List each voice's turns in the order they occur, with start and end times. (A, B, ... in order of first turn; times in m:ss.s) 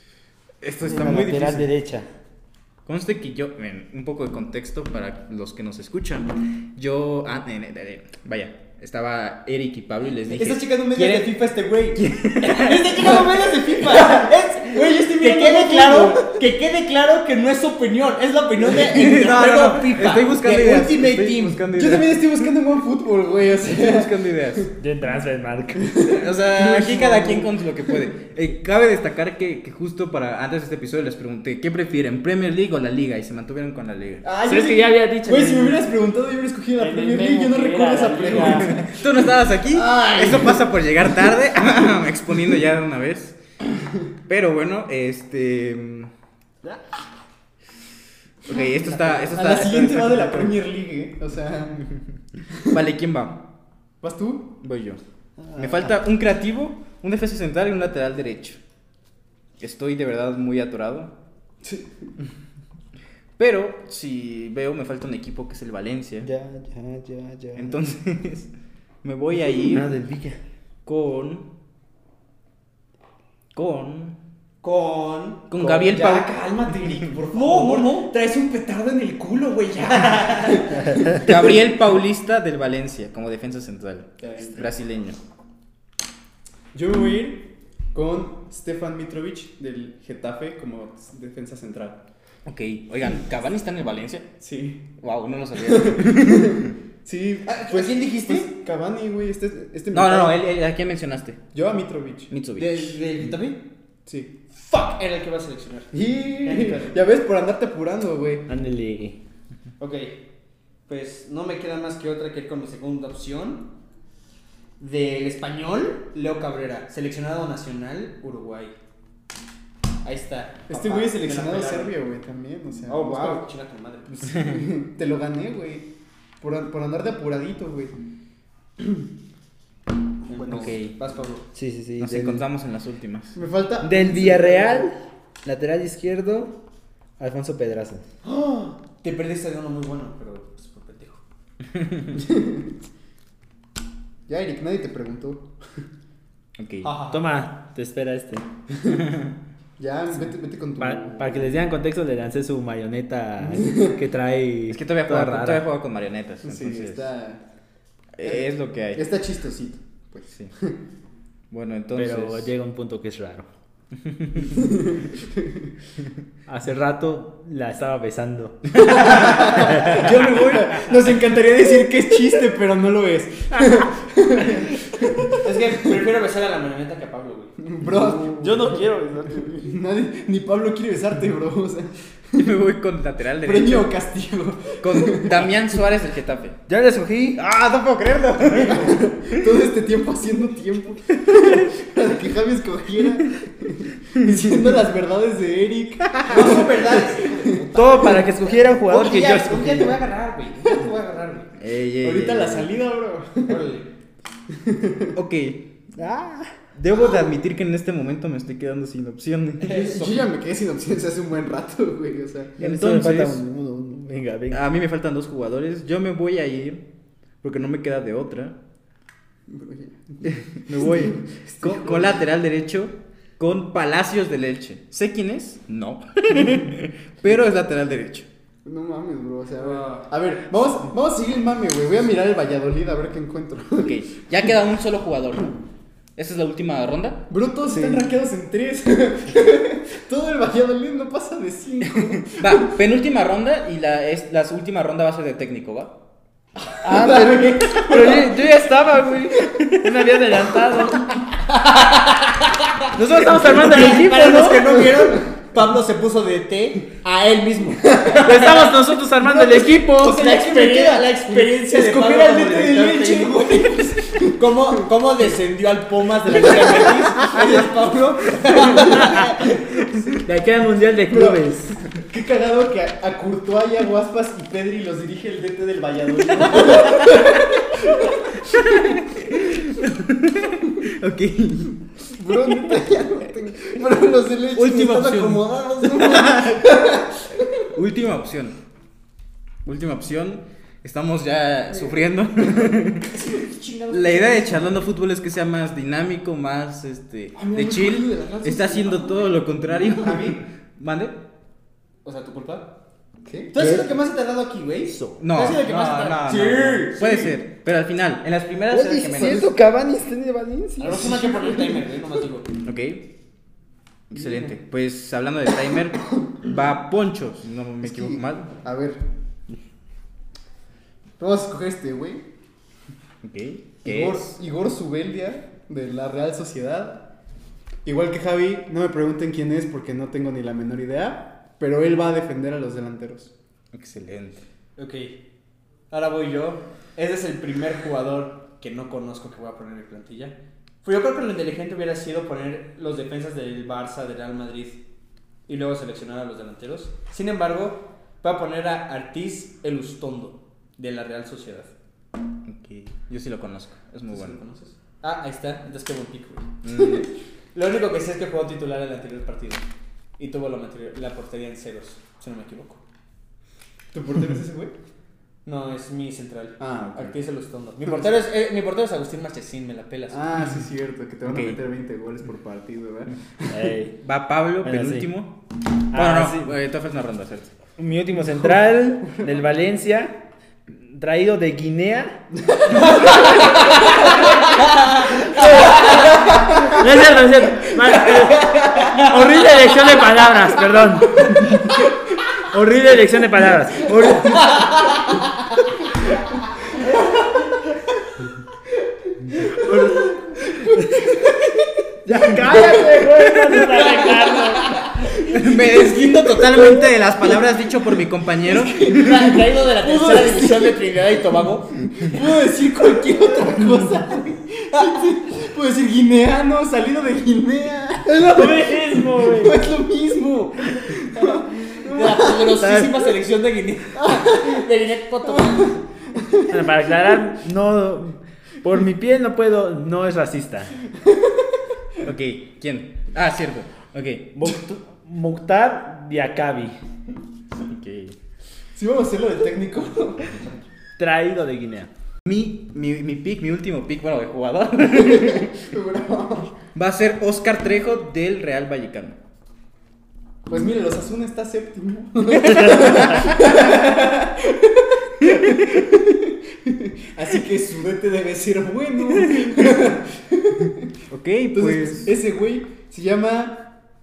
0:00.6-0:01.7 A
0:00.8-0:02.1 B
0:02.9-0:13.2 A
0:10.4-0:21.6 C
0:13.1-0:16.3 D
0:18.7-0:22.5 A
0:21.7-0:24.7 D
0:23.6-0:24.7 A
0:24.8-0:26.0 B
0:25.8-0:28.0 D
0:26.1-0:34.2 A
0:34.2-0:38.9 D
0:34.4-0:35.9 B
0:36.8-0:38.8 B
0:38.4-0:43.4 A
0:39.7-0:40.7 D
0:44.3-0:46.1 A
0:48.5-0:50.6 A
0:48.6-0:49.4 C
0:49.3-0:51.9 D
0:52.5-0:52.8 D
0:52.7-0:53.4 A
0:54.0-0:54.5 D
0:54.6-0:55.0 A
0:55.4-0:55.9 B
0:55.6-0:58.6 A
0:59.6-1:01.1 A
1:01.6-1:01.9 D
1:03.4-1:06.3 A
1:06.2-1:07.8 B
1:07.6-1:08.5 A
1:09.0-1:09.9 A
1:09.6-1:10.4 B
1:10.8-1:11.5 A
1:13.5-1:14.2 A
1:14.6-1:21.0 C
1:15.5-1:16.3 A
1:16.7-1:18.0 D
1:20.7-1:21.1 D
1:21.0-1:25.2 A
1:24.2-1:24.6 D
1:26.7-1:32.0 D
1:32.4-1:34.3 A
1:34.4-1:34.9 D
1:35.0-1:36.7 A
1:35.6-1:40.4 D
1:37.5-1:38.5 C
1:39.9-1:41.4 A
1:41.5-1:42.3 D
1:42.3-1:43.0 A
1:42.6-1:43.6 C
1:44.1-1:44.3 D
1:44.6-1:47.0 C
1:45.9-1:48.5 D
1:48.5-1:49.2 B
1:49.8-1:50.2 C
1:50.9-1:53.7 C
1:54.8-1:58.7 C
2:00.0-2:02.0 C
2:00.7-2:03.4 D
2:02.9-2:04.4 C
2:04.2-2:04.6 A
2:04.3-2:05.9 D
2:06.4-2:07.9 D
2:08.8-2:09.1 D
2:10.3-2:11.5 C
2:10.5-2:10.9 A
2:11.5-2:12.4 B
2:12.0-2:13.4 A
2:13.4-2:14.9 D
2:13.8-2:16.6 B
2:17.2-2:18.0 B
2:18.2-2:21.2 C
2:21.8-2:22.2 A
2:22.2-2:22.7 D
2:24.3-2:25.5 D
2:26.6-2:26.9 A
2:26.8-2:27.3 C
2:27.1-2:28.5 B
2:28.9-2:29.3 A
2:29.8-2:31.6 D
2:30.8-2:35.7 B
2:33.4-2:34.0 D
2:34.7-2:37.1 A
2:36.4-2:37.4 D
2:38.2-2:39.0 A
2:38.2-2:40.8 D
2:40.2-2:40.5 A
2:41.5-2:42.5 A
2:42.0-2:43.5 B
2:44.0-2:44.6 A
2:44.5-2:45.7 D
2:46.5-2:50.2 B
2:48.8-2:56.0 D
2:53.5-2:53.9 B
2:55.4-2:57.5 C
2:57.6-3:02.5 D
2:57.8-2:59.7 B
3:02.4-3:03.9 A
3:03.4-3:05.5 D
3:04.8-3:06.6 A
3:06.7-3:07.4 B
3:07.4-3:09.4 A
3:08.4-3:08.9 B
3:08.7-3:17.6 D
3:14.2-3:14.6 A
3:16.0-3:16.6 A
3:16.3-3:21.5 C
3:17.7-3:20.0 B
3:21.6-3:22.7 A
3:22.0-3:23.7 D
3:23.4-3:23.9 C
3:24.5-3:25.1 D
3:25.1-3:25.7 A
3:26.0-3:26.6 B
3:26.8-3:29.7 A
3:26.9-3:27.2 D
3:29.6-3:30.3 C
3:29.6-3:32.6 D
3:32.6-3:34.6 B
3:32.6-3:33.4 A
3:34.5-3:36.8 A
3:37.4-3:38.6 A
3:39.5-3:42.2 D
3:40.3-3:48.3 A
3:48.6-3:54.0 D
3:49.6-3:50.1 C
3:53.8-3:55.6 A
3:56.2-3:57.3 A
3:57.3-4:02.7 D
3:57.7-3:58.1 B
4:02.2-4:06.0 A
4:06.8-4:11.1 B
4:06.9-4:08.4 D
4:13.0-4:14.3 A
4:13.0-4:14.7 B
4:13.4-4:18.7 C
4:14.7-4:15.2 D
4:17.8-4:18.6 D
4:18.2-4:20.3 B
4:19.2-4:24.4 D
4:20.0-4:23.8 C
4:24.3-4:29.5 C
4:26.3-4:27.4 D
4:30.2-4:31.8 B
4:31.1-4:38.9 D
4:36.4-4:37.2 A
4:38.5-4:42.8 A
4:42.1-4:47.7 D
4:44.5-4:46.7 A
4:47.7-4:48.6 A
4:49.6-4:53.1 A
4:52.6-4:53.6 D
4:53.2-4:54.8 C
4:53.9-5:01.2 A
4:57.3-4:59.4 D
4:59.8-5:00.4 C
5:02.0-5:02.7 C
5:03.3-5:03.5 D
5:03.5-5:07.4 C
5:03.6-5:03.9 B
5:04.9-5:05.2 B
5:05.2-5:09.5 A
5:08.7-5:11.1 B
5:09.1-5:09.5 D
5:10.8-5:12.5 C
5:11.0-5:11.8 D
5:12.6-5:13.0 A
5:14.1-5:18.5 A
5:14.2-5:14.5 C
5:17.8-5:19.0 D
5:21.2-5:22.3 D
5:23.2-5:24.3 A
5:23.8-5:27.1 D
5:27.8-5:33.3 D
5:33.7-5:34.5 A
5:34.8-5:35.2 C
5:35.9-5:44.8 C
5:45.5-5:51.7 C
5:52.5-5:54.4 A
5:54.1-5:56.5 C
5:56.6-5:57.1 A
5:57.6-5:59.6 C
6:00.2-6:02.8 C
6:03.9-6:04.7 D
6:05.4-6:10.2 C
6:06.6-6:07.2 D
6:10.1-6:13.7 D
6:11.2-6:11.6 A
6:13.5-6:14.0 B
6:14.0-6:15.4 A
6:14.6-6:15.1 B
6:15.9-6:16.5 B
6:15.9-6:17.5 A
6:17.8-6:22.3 B
6:23.0-6:24.1 B
6:25.0-6:31.8 B
6:32.4-6:34.7 B
6:39.4-6:41.7 D
6:39.7-6:40.0 B
6:42.1-6:44.8 B
6:42.2-6:44.0 D
6:44.0-6:44.9 C
6:45.2-6:46.7 D
6:45.2-6:49.3 A
6:48.4-6:51.0 D
6:48.9-6:51.7 C
6:51.8-7:02.8 D
6:58.1-6:59.6 B
7:01.8-7:05.8 C
7:04.0-7:04.6 D
7:05.3-7:06.7 D
7:06.5-7:10.7 B
7:11.1-7:11.4 D
7:12.0-7:14.5 A
7:14.4-7:16.8 B
7:17.6-7:18.2 A
7:18.8-7:20.5 D
7:21.0-7:21.9 B
7:22.3-7:25.6 A
7:25.0-7:26.6 D
7:26.7-7:29.2 A
7:30.5-7:40.9 D
7:32.4-7:33.7 A
7:35.2-7:35.8 A
7:39.0-7:39.9 A
7:41.1-7:42.2 A
7:41.5-7:43.7 D